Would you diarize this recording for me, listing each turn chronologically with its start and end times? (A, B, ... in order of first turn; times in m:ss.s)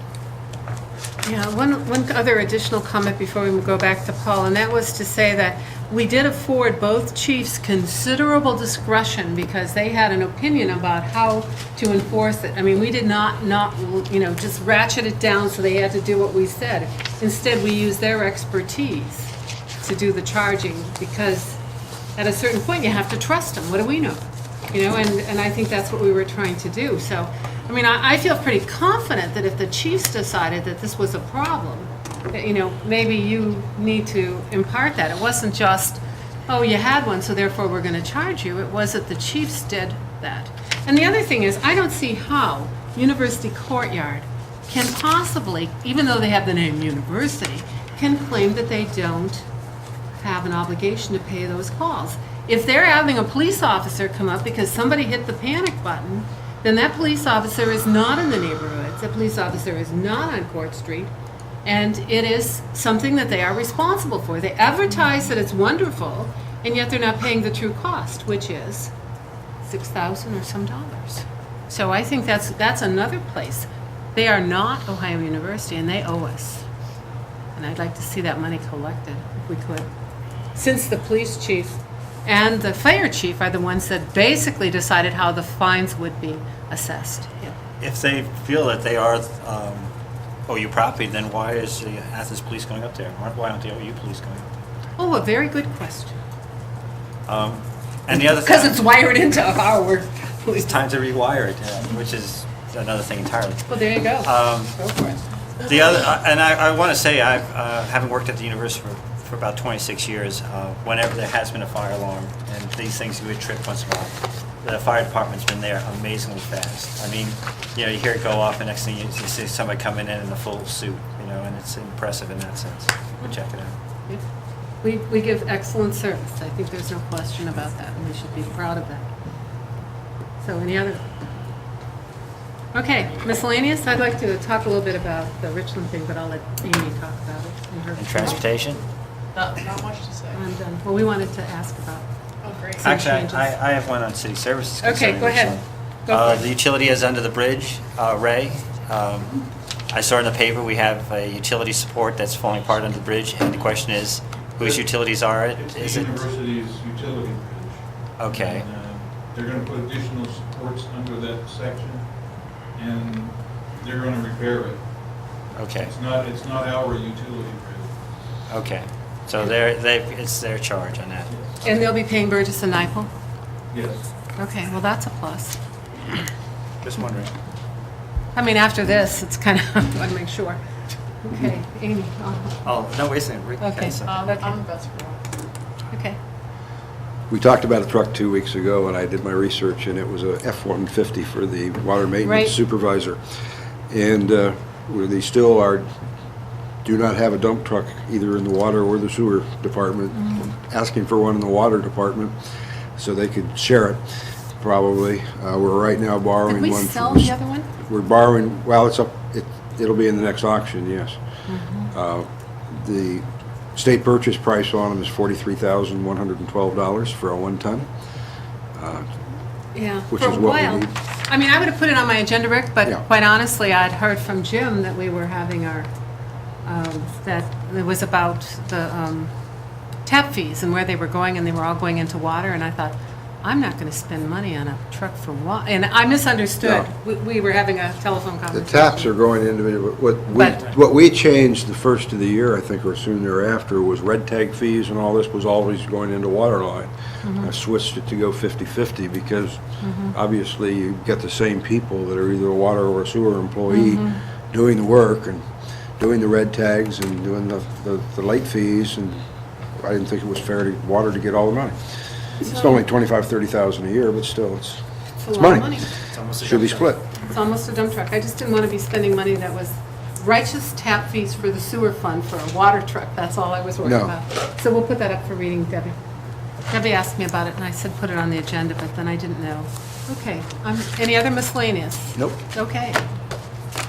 0:01.2-0:21.6 A
0:22.2-0:24.2 A
0:24.7-0:49.4 A
0:50.2-1:01.1 A
1:01.6-1:08.9 A
1:09.6-1:16.6 A
1:17.5-1:19.9 A
1:20.5-1:27.6 A
1:27.8-1:29.9 B
1:30.5-1:34.5 B
1:35.0-1:36.2 A
1:37.3-1:38.8 B
1:38.1-1:40.7 A
1:40.5-1:44.7 B
1:43.7-1:45.2 A
1:45.6-2:03.7 B
2:04.8-2:09.0 A
2:10.4-2:11.0 A
2:12.7-2:18.5 A
2:18.0-2:18.8 B
2:19.3-2:20.4 C
2:20.3-2:22.0 A
2:22.4-2:23.0 C
2:22.8-2:23.5 A
2:22.8-2:36.2 B
2:24.8-2:26.5 A
2:34.6-2:34.9 D
2:35.4-2:42.2 D
2:38.2-2:38.6 B
2:42.7-2:44.9 D
2:45.5-2:45.9 B
2:45.8-2:47.9 D
2:48.5-2:51.3 B
2:51.3-2:51.6 D
2:51.6-2:53.1 A
2:53.7-2:54.1 D
2:54.4-2:55.6 A
2:56.8-2:57.3 B
2:58.3-3:00.6 A
3:01.2-3:02.6 A
3:02.6-3:04.2 B
3:03.6-3:04.6 A
3:04.0-3:05.3 C
3:05.9-3:06.2 A
3:07.3-3:13.2 E
3:12.2-3:12.5 A
3:13.9-3:15.8 E
3:16.8-3:22.4 E
3:20.2-3:20.4 A
3:23.0-3:24.0 E
3:24.6-3:31.2 E
3:26.4-3:27.7 A
3:31.5-3:31.9 A
3:31.9-3:33.2 E
3:33.7-3:37.9 E
3:38.7-3:39.0 E
3:39.7-3:45.9 A
3:40.1-3:40.9 E
3:46.6-3:49.3 A
3:50.0-3:59.1 A
3:56.6-3:56.9 E
3:58.5-4:15.4 E
4:00.3-4:00.7 A
4:07.2-4:07.5 A
4:09.8-4:10.1 A
4:13.7-4:14.2 A
4:16.0-4:19.2 E
4:19.8-4:21.9 E
4:22.4-4:27.0 E
4:25.2-4:25.9 A
4:26.1-4:27.0 B
4:27.2-4:36.0 A
4:33.8-4:34.1 E
4:36.7-4:43.0 A
4:42.1-4:42.4 E